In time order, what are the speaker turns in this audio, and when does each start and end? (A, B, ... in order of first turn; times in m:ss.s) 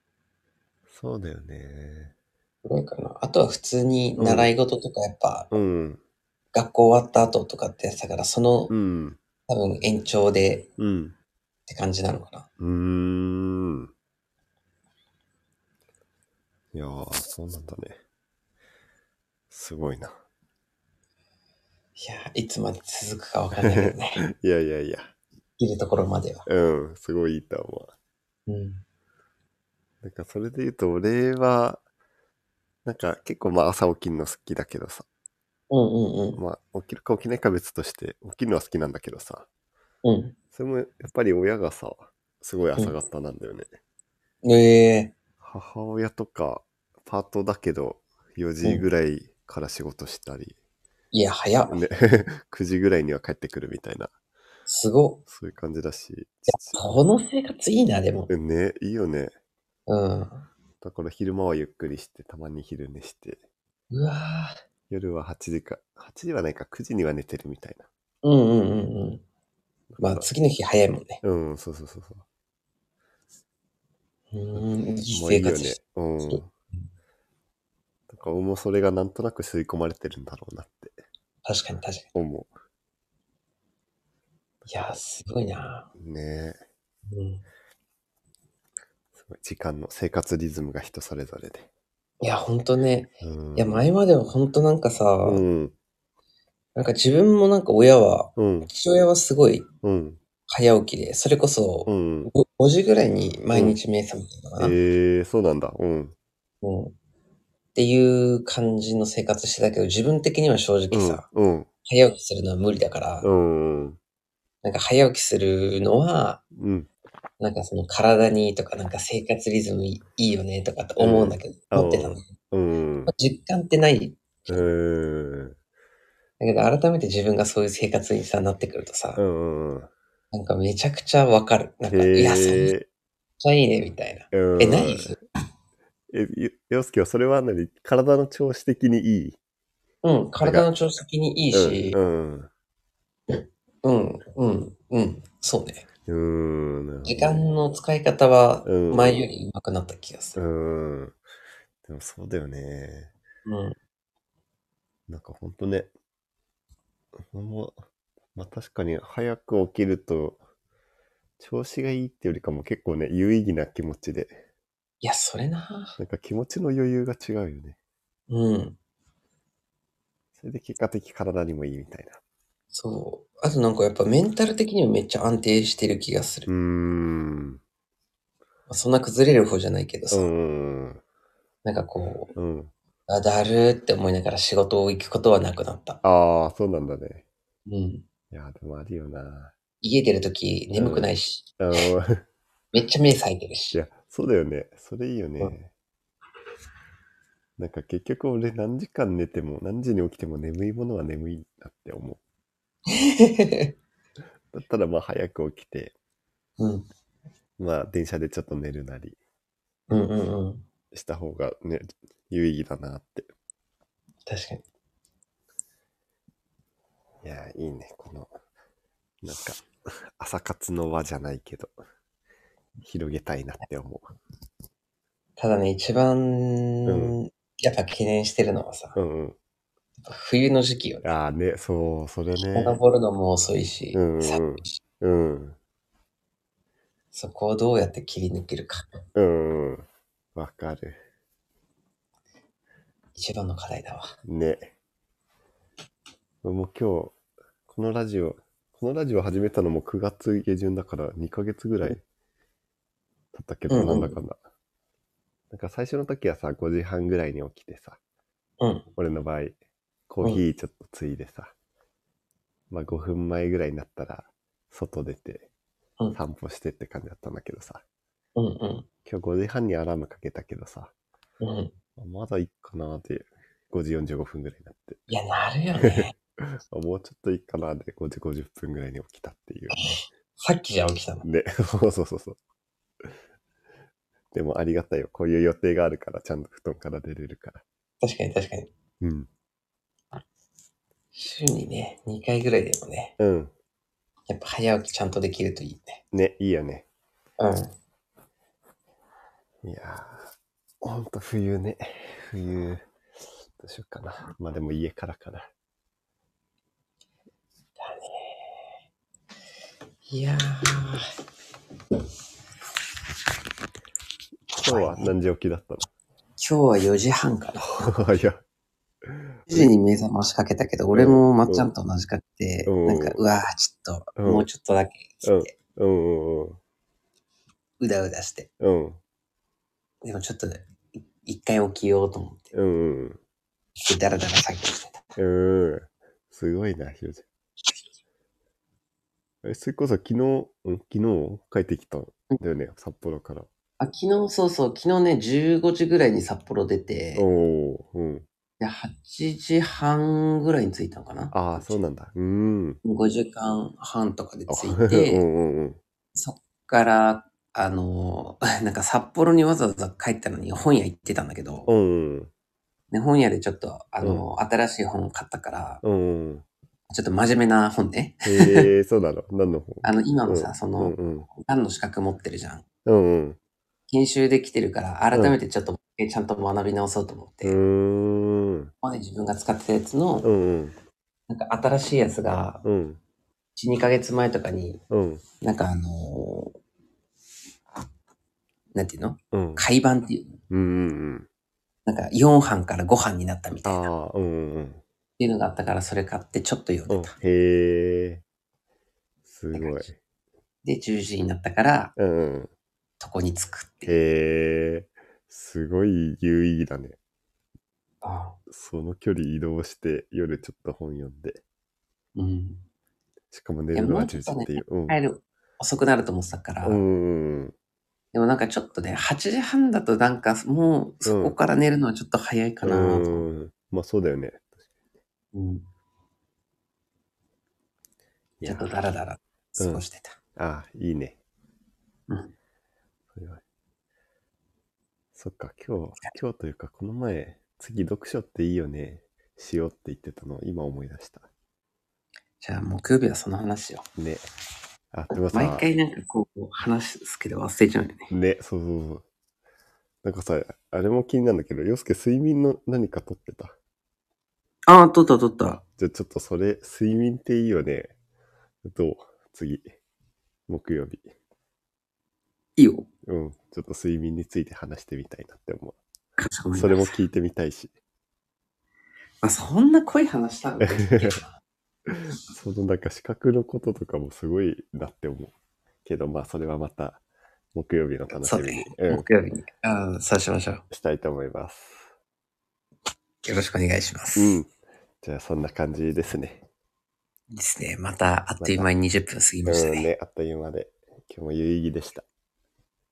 0:00.9-0:02.1 A
0:02.6-0:05.5 B
0:04.2-0:04.5 A
0:05.5-0:06.0 A
0:06.5-0:08.7 B
0:08.7-0:09.2 A
0:09.5-0:10.7 B
0:10.8-0:11.2 A
0:11.7-0:12.5 B
0:12.6-0:13.9 A
0:16.7-0:18.0 A
0:19.5-0:20.1 A
0:22.0-0:24.2 B
0:23.6-0:25.1 A
0:25.6-0:26.4 B
0:26.5-0:27.9 A
0:28.5-0:28.8 B
0:30.0-0:31.8 A
0:32.8-0:35.0 A
0:35.7-0:36.4 B
0:36.3-0:39.5 A
0:40.0-0:40.3 B
0:40.5-0:43.7 A
0:44.4-0:45.1 B
0:45.4-0:50.5 A
0:51.1-0:51.8 B
0:51.7-0:54.1 A
0:54.7-0:55.2 B
0:55.2-0:57.0 A
0:56.7-0:58.3 B
0:58.3-0:59.3 A
0:59.9-1:00.5 B
1:00.8-1:03.4 A
1:03.9-1:04.6 B
1:04.9-1:07.8 A
1:08.2-1:09.2 B
1:09.9-1:10.3 A
1:10.0-1:11.2 B
1:11.2-1:12.2 A
1:14.3-1:16.9 B
1:14.6-1:16.5 A
1:18.1-1:21.0 A
1:21.4-1:22.1 B
1:22.1-1:22.5 A
1:24.6-1:25.0 A
1:24.7-1:25.9 B
1:26.0-1:26.6 A
1:27.1-1:27.4 B
1:29.2-1:31.7 A
1:32.2-1:35.4 B
1:33.2-1:33.8 A
1:35.2-1:35.7 A
1:36.8-1:39.7 B
1:38.4-1:38.7 A
1:39.8-1:40.2 A
1:40.5-1:44.8 B
1:41.8-1:42.3 A
1:43.5-1:43.8 A
1:44.6-1:46.1 A
1:46.6-1:46.9 B
1:47.7-1:51.2 B
1:50.9-1:51.7 A
1:51.8-1:53.3 B
1:53.2-1:54.0 A
1:54.6-1:56.4 B
1:56.6-1:56.9 A
1:57.4-2:02.3 B
2:01.0-2:03.1 A
2:03.1-2:04.6 B
2:04.5-2:05.6 A
2:06.4-2:09.2 B
2:09.2-2:09.9 A
2:10.3-2:12.7 B
2:11.9-2:12.8 A
2:13.4-2:15.2 B
2:14.3-2:15.1 A
2:16.1-2:19.4 A
2:20.0-2:22.0 B
2:20.4-2:20.7 A
2:21.5-2:22.5 A
2:23.8-2:25.9 B
2:26.1-2:27.4 A
2:27.0-2:30.4 B
2:28.6-2:29.3 A
2:30.4-2:31.2 A
2:31.8-2:33.1 A
2:33.4-2:33.8 B
2:35.1-2:35.9 A
2:37.3-2:37.8 A
2:38.3-2:40.4 A
2:41.4-2:44.4 A
2:45.0-2:46.0 B
2:46.0-2:47.8 A
2:48.3-2:48.8 B
2:50.4-2:52.2 A
2:52.7-2:56.5 B
2:56.5-2:57.6 A
2:58.7-3:00.3 B
3:00.1-3:01.0 A
3:01.6-3:02.3 B
3:02.3-3:02.7 A
3:03.1-3:06.0 B
3:06.0-3:07.2 A
3:07.7-3:08.0 B
3:08.3-3:09.5 A
3:09.8-3:11.8 B
3:10.7-3:12.2 A
3:12.7-3:13.8 B
3:13.7-3:15.7 A
3:17.6-3:22.2 A
3:22.9-3:23.7 B
3:24.5-3:25.9 A
3:26.6-3:26.9 B
3:27.6-3:29.2 A
3:29.9-3:30.6 B
3:30.9-3:33.3 A
3:34.2-3:34.6 B
3:37.2-3:38.3 A
3:39.2-3:41.7 A
3:42.8-3:44.1 A
3:45.4-3:49.0 B
3:46.8-3:47.2 A
3:48.9-3:49.4 A
3:50.0-3:51.1 B
3:51.0-3:52.8 A
3:52.5-3:54.8 B
3:53.9-3:55.6 A
3:57.1-3:59.0 B
3:59.1-4:01.0 A
4:03.2-4:04.2 B
4:04.2-4:04.7 A
4:06.4-4:07.2 A
4:07.7-4:12.0 A
4:13.3-4:14.4 A
4:13.7-4:14.2 B
4:15.5-4:18.0 A
4:18.6-4:18.9 B
4:19.0-4:19.6 A
4:20.1-4:21.5 A
4:22.7-4:25.5 A
4:26.1-4:27.8 A
4:28.4-4:28.9 B
4:29.0-4:30.9 A
4:31.4-4:31.7 B
4:32.0-4:35.0 A
4:35.1-4:36.1 B
4:35.8-4:39.8 A
4:39.7-4:41.2 B
4:41.2-4:42.4 A
4:44.3-4:47.6 A
4:48.0-4:48.7 B
4:49.0-4:49.3 A
4:51.1-4:53.1 B
4:53.2-4:53.5 A
4:54.3-4:56.0 B
4:56.1-4:56.8 A
4:57.4-4:57.7 B
4:59.6-5:00.3 A
5:00.8-5:02.9 A
5:03.6-5:05.5 A
5:07.8-5:08.7 B
5:10.1-5:11.0 B
5:14.5-5:15.9 A
5:14.6-5:15.1 B
5:16.4-5:17.9 B
5:17.6-5:18.4 A
5:19.0-5:19.7 A
5:19.5-5:25.5 B
5:20.9-5:21.7 A
5:22.6-5:23.2 A
5:24.2-5:24.5 A
5:25.2-5:26.6 A
5:27.8-5:28.5 B
5:28.6-5:29.0 A
5:30.0-5:32.5 B
5:32.5-5:33.2 A
5:33.8-5:35.1 B
5:35.2-5:37.2 A
5:39.4-5:43.5 A
5:43.8-5:47.2 B
5:47.1-5:48.2 A
5:48.6-5:51.8 B
5:51.3-5:52.8 A
5:52.8-5:55.2 B
5:54.5-5:55.8 A
5:56.1-6:01.7 B
6:01.7-6:02.3 A
6:02.9-6:05.8 B
6:05.8-6:06.4 A
6:06.9-6:08.7 B
6:08.2-6:11.3 A
6:09.8-6:12.6 B
6:12.8-6:13.4 A
6:13.9-6:17.6 B
6:17.4-6:18.7 A
6:18.8-6:20.3 B
6:20.2-6:20.7 A
6:21.3-6:22.6 B
6:22.6-6:23.0 A
6:23.6-6:24.8 B
6:24.9-6:25.2 A
6:25.4-6:26.5 B
6:28.7-6:30.3 B
6:29.3-6:29.7 A
6:30.5-6:31.3 A
6:31.8-6:33.9 B
6:33.6-6:34.8 A
6:35.2-6:37.1 B
6:36.9-6:38.2 A
6:39.2-6:40.0 A
6:39.5-6:39.8 B
6:40.6-6:41.9 B
6:42.0-6:42.5 A
6:43.0-6:43.9 B
6:43.8-6:47.0 A
6:48.0-6:48.4 B
6:48.5-6:51.4 A
6:52.2-6:52.6 B
6:53.3-6:55.0 A
6:53.7-6:56.8 B
6:56.6-6:57.5 A
6:58.1-7:03.2 B
7:01.0-7:01.4 A
7:02.6-7:04.5 A
7:05.3-7:05.6 B
7:08.4-7:08.8 A
7:08.4-7:10.2 B
7:09.6-7:09.8 A
7:10.4-7:11.2 A
7:13.1-7:13.4 A
7:15.1-7:21.3 A
7:22.4-7:23.8 B
7:24.0-7:24.2 A
7:24.9-7:25.7 A
7:25.3-7:28.1 B
7:28.1-7:29.0 A
7:30.0-7:33.5 A
7:34.6-7:35.6 B
7:35.8-7:37.9 A
7:38.6-7:39.6 A
7:40.5-7:41.1 A
7:42.6-7:42.9 B
7:43.0-7:45.8 A
7:46.2-7:47.0 B
7:46.5-7:47.7 A
7:49.2-7:51.4 B
7:50.6-7:51.2 A
7:51.9-7:55.3 A
7:55.8-7:57.0 A
7:57.5-7:59.1 A
7:58.2-8:00.6 B
8:00.7-8:01.9 A
8:03.2-8:04.4 B
8:04.2-8:04.5 A
8:05.0-8:06.4 A
8:07.3-8:09.9 B
8:08.4-8:08.7 A
8:09.4-8:12.0 A